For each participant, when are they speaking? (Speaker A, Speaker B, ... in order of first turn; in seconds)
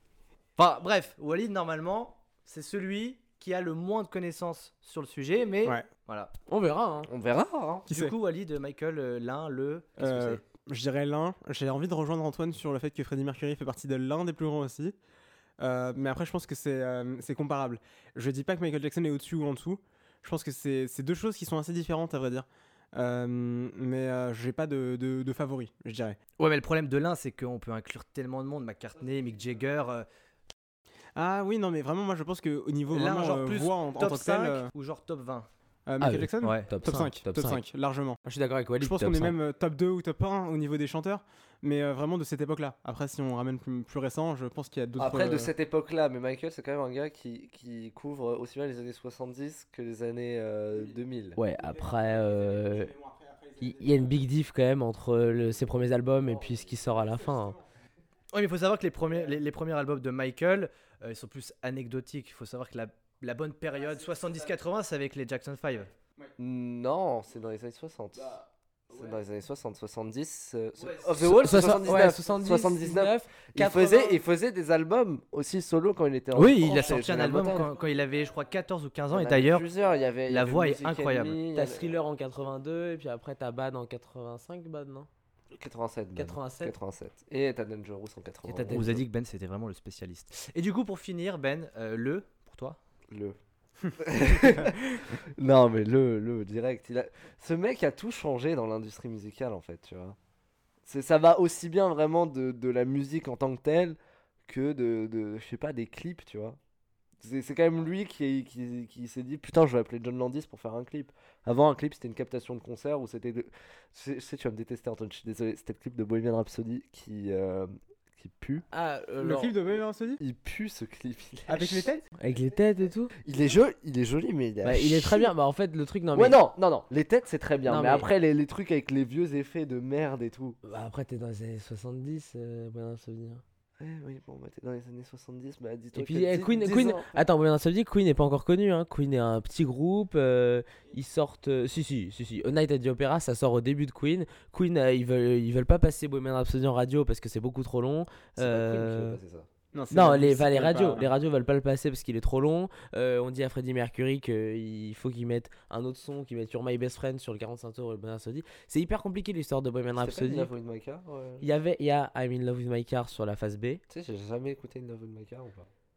Speaker A: 0.6-6.3, 7.9-10.4, 26.4-30.1, 32.9-35.5, 36.4-36.7, 58.3-65.9, 76.3-79.7, 80.3-81.4, 88.4-92.8
Speaker B: 6.5-7.1, 36.0-37.6, 38.2-39.4, 51.4-52.9, 53.6-57.6, 71.1-74.2, 81.5-85.1, 86.2-86.8, 88.7-89.0, 118.7-119.5, 122.2-123.1, 124.6-126.4, 127.7-128.1, 130.6-133.4, 135.9-149.2, 149.9-160.5, 161.4-163.8
Speaker C: 7.1-7.9, 45.0-51.4, 66.4-68.4, 68.9-77.7, 79.1-82.0, 85.5-88.9, 93.1-93.4, 94.0-100.2, 100.8-106.6, 107.2-118.6, 120.2-121.9, 123.2-125.3, 126.1-130.6, 133.8-137.2, 148.4-149.5, 160.0-161.5, 163.9-165.7
Speaker D: 7.9-8.1, 10.0-14.9, 15.6-26.2, 31.1-34.7, 35.9-38.2, 38.8-45.5, 51.6-54.2, 57.0-57.6, 94.5-94.9, 119.2-120.2, 121.5-122.0, 149.7-151.1